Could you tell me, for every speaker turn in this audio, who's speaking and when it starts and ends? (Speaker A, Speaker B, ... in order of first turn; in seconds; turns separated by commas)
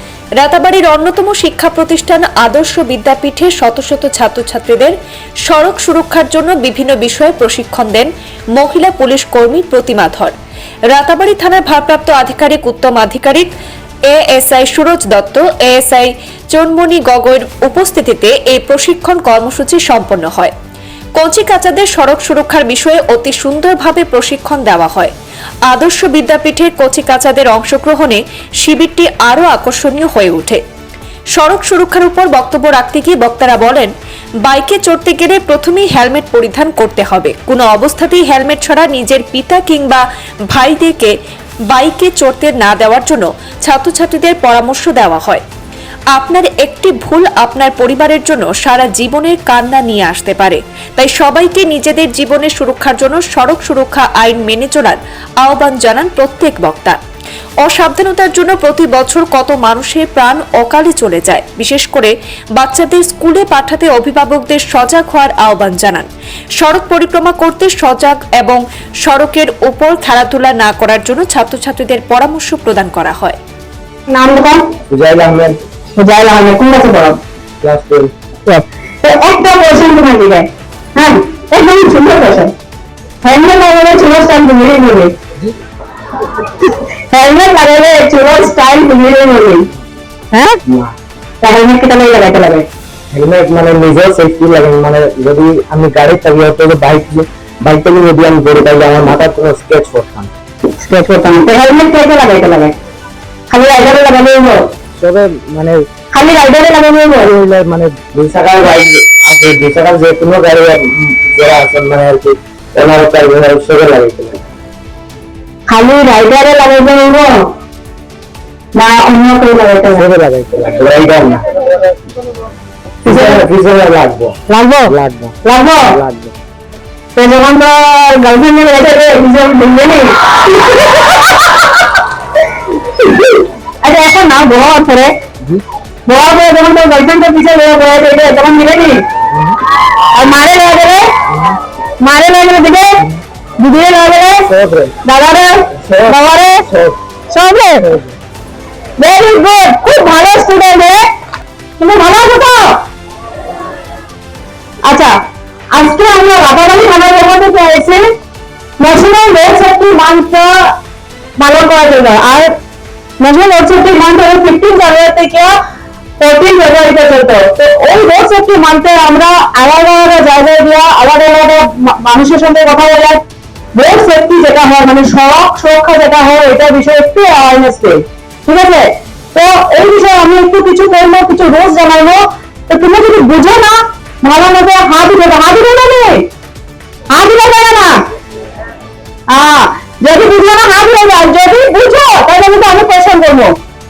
Speaker A: 0.4-5.0, Speaker A: 5.5-10.3, Speaker A: 10.9-13.5, Speaker A: 14.1-20.5, Speaker A: 21.2-25.1, Speaker A: 25.7-30.6, Speaker A: 31.4-33.9, Speaker A: 34.4-41.1, Speaker A: 41.7-45.4, Speaker A: 46.1-57.0, Speaker A: 57.6-66.1, Speaker A: 66.6-73.4, Speaker B: 74.1-74.7, Speaker C: 74.9-75.6, Speaker B: 76.0-77.2, Speaker C: 77.6-78.1, Speaker B: 78.5-82.5, Speaker B: 83.2-85.1, Speaker B: 87.1-89.7, Speaker B: 90.3-90.6, Speaker C: 90.7-90.9, Speaker B: 91.4-92.7, Speaker C: 93.1-100.3, Speaker B: 100.8-102.7, Speaker B: 103.5-104.6, Speaker C: 105.0-105.9, Speaker B: 106.1-107.3, Speaker C: 107.3-114.4, Speaker B: 115.7-117.4, Speaker B: 118.8-120.1, Speaker C: 120.0-121.6, Speaker C: 123.0-125.3, Speaker B: 123.1-123.5, Speaker B: 124.5-125.9, Speaker C: 125.9-126.3, Speaker B: 127.2-131.3, Speaker B: 133.0-135.1, Speaker B: 136.1-139.0, Speaker B: 140.1-141.1, Speaker B: 142.0-143.1, Speaker B: 143.6-144.5, Speaker C: 144.5-144.9, Speaker B: 145.0-146.7, Speaker C: 145.8-146.2, Speaker C: 146.7-147.0, Speaker B: 147.3-147.9, Speaker C: 147.8-148.1, Speaker B: 149.0-151.0, Speaker B: 151.8-152.8, Speaker B: 154.9-155.1, Speaker B: 155.7-158.0, Speaker B: 158.8-160.7, Speaker B: 161.4-162.6, Speaker B: 163.2-165.5, Speaker B: 166.2-173.2, Speaker B: 173.8-186.3, Speaker B: 187.1-188.0, Speaker B: 189.3-193.5